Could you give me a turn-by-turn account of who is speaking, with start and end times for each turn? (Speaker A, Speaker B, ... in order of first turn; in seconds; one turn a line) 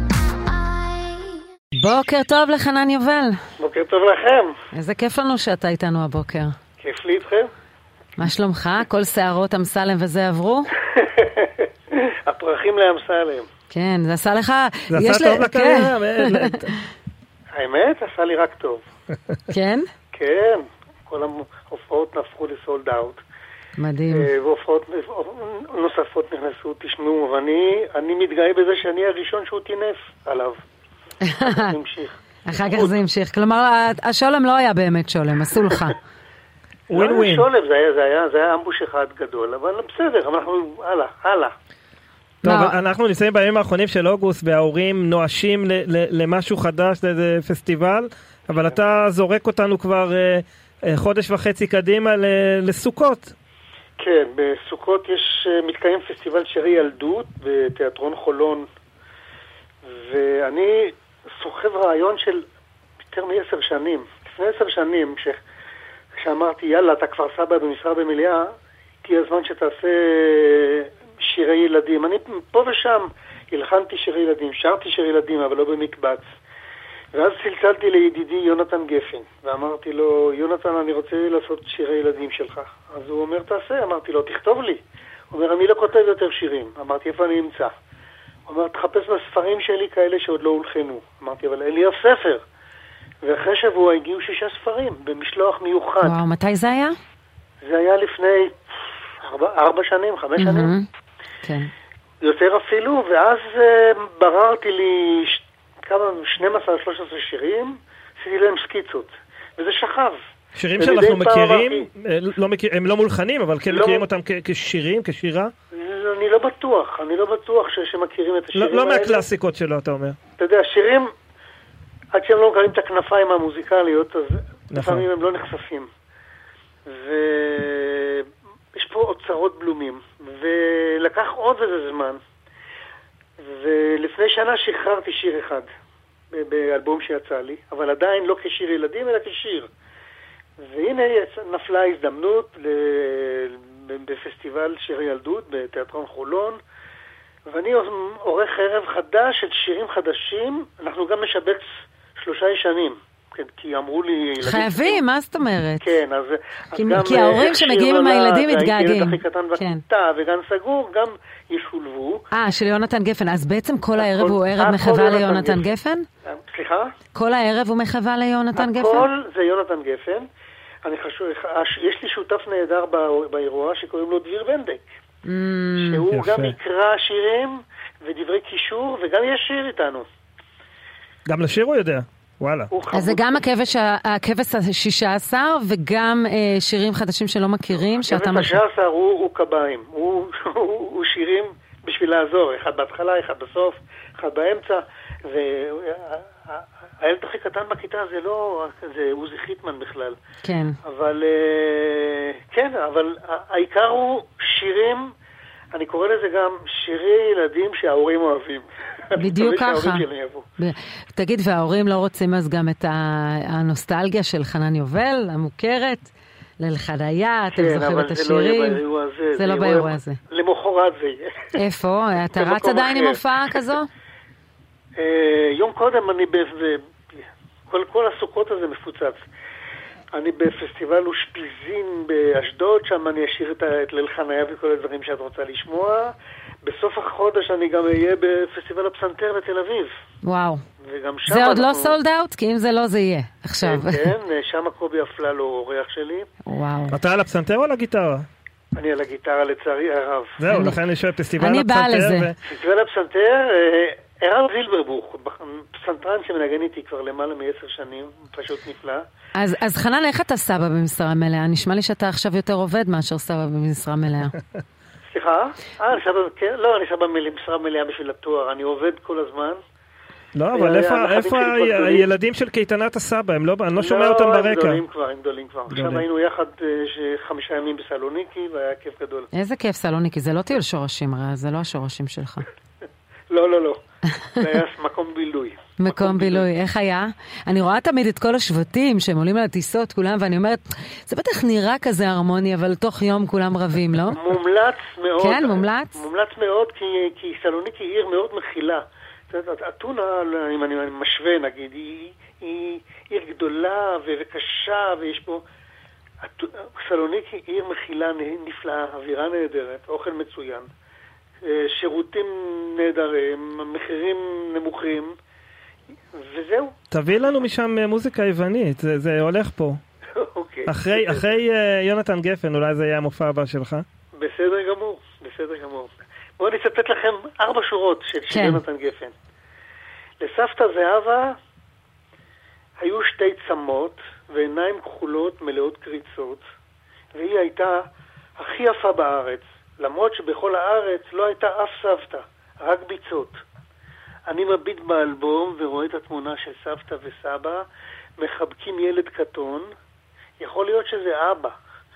Speaker A: 1.8-3.4
Speaker B: 3.6-4.5
Speaker A: 4.7-6.5
Speaker B: 6.8-7.5
Speaker A: 8.2-10.7
Speaker B: 10.9-13.5
Speaker A: 13.7-16.8
Speaker C: 14.9-16.7
Speaker B: 17.5-18.8
Speaker A: 19.5-19.9
Speaker B: 20.1-23.2
Speaker A: 23.8-24.3
Speaker B: 24.1-30.6
Speaker A: 31.2-31.7
Speaker B: 31.4-32.9
Speaker A: 32.5-36.0
Speaker C: 36.9-37.5
Speaker B: 36.9-41.5
Speaker A: 42.4-42.8
Speaker C: 42.4-53.3
Speaker B: 54.0-58.7
Speaker B: 59.9-62.5
Speaker B: 63.0-65.4
Speaker B: 66.2-68.5
Speaker B: 69.0-76.2
Speaker B: 77.1-87.7
Speaker B: 88.5-92.4
Speaker B: 93.2-96.1
Speaker A: 96.0-96.9
Speaker B: 97.6-98.6
Speaker B: 99.2-100.7
Speaker A: 100.4-100.9
Speaker A: 101.4-101.7
Speaker B: 102.2-110.2
Speaker C: 110.5-115.5
Speaker B: 110.8-111.9
Speaker B: 113.7-114.0
Speaker B: 115.7-119.2
Speaker C: 118.5-120.2
Speaker B: 120.4-121.1
Speaker B: 122.1-125.9
Speaker C: 124.7-125.0
Speaker B: 126.8-132.2
Speaker B: 133.4-135.7
Speaker B: 136.3-139.7
Speaker B: 140.6-146.6
Speaker B: 147.5-151.7
Speaker B: 152.2-155.0
Speaker A: 154.4-155.9
Speaker B: 155.8-162.2
Speaker A: 156.7-159.8
Speaker A: 162.3-166.0
Speaker B: 164.0-165.7
Speaker B: 166.2-166.9
Speaker A: 167.1-169.1
Speaker B: 168.5-170.3
Speaker B: 170.8-174.8
Speaker A: 175.2-176.0
Speaker B: 175.8-180.0
Speaker C: 176.1-176.5
Speaker C: 181.3-182.7
Speaker B: 182.7-183.4
Speaker A: 182.9-188.6
Speaker B: 187.8-200.2
Speaker A: 200.4-200.8
Speaker B: 200.8-205.1
Speaker B: 205.7-210.4
Speaker A: 209.2-210.1
Speaker A: 210.6-218.8
Speaker B: 217.5-221.5
Speaker A: 219.3-220.2
Speaker A: 221.5-223.9
Speaker B: 222.3-223.2
Speaker B: 225.0-229.2
Speaker B: 230.1-239.9
Speaker A: 240.2-240.6
Speaker B: 240.8-242.0
Speaker A: 241.3-244.1
Speaker B: 243.6-246.3
Speaker A: 246.4-247.0
Speaker C: 246.9-248.2
Speaker B: 248.8-250.4
Speaker C: 250.4-252.3
Speaker A: 250.5-250.8
Speaker A: 251.4-252.3
Speaker B: 252.4-259.0
Speaker A: 259.4-264.4
Speaker B: 265.1-269.6
Speaker C: 270.3-274.8
Speaker B: 270.5-272.1
Speaker B: 273.8-279.3
Speaker C: 275.7-276.0
Speaker A: 279.3-282.5
Speaker B: 283.3-283.8
Speaker B: 284.4-286.4
Speaker A: 285.8-294.2
Speaker B: 294.1-305.4
Speaker A: 295.2-296.0
Speaker B: 306.2-310.7
Speaker B: 311.4-315.1
Speaker B: 316.1-316.7
Speaker C: 316.9-319.8
Speaker B: 320.1-321.2
Speaker C: 320.6-323.8
Speaker B: 324.1-329.1
Speaker A: 328.3-328.6
Speaker B: 330.2-331.4
Speaker B: 332.8-336.4
Speaker B: 337.1-337.9
Speaker B: 338.4-343.4
Speaker B: 344.3-347.7
Speaker B: 348.2-349.7
Speaker B: 350.4-351.6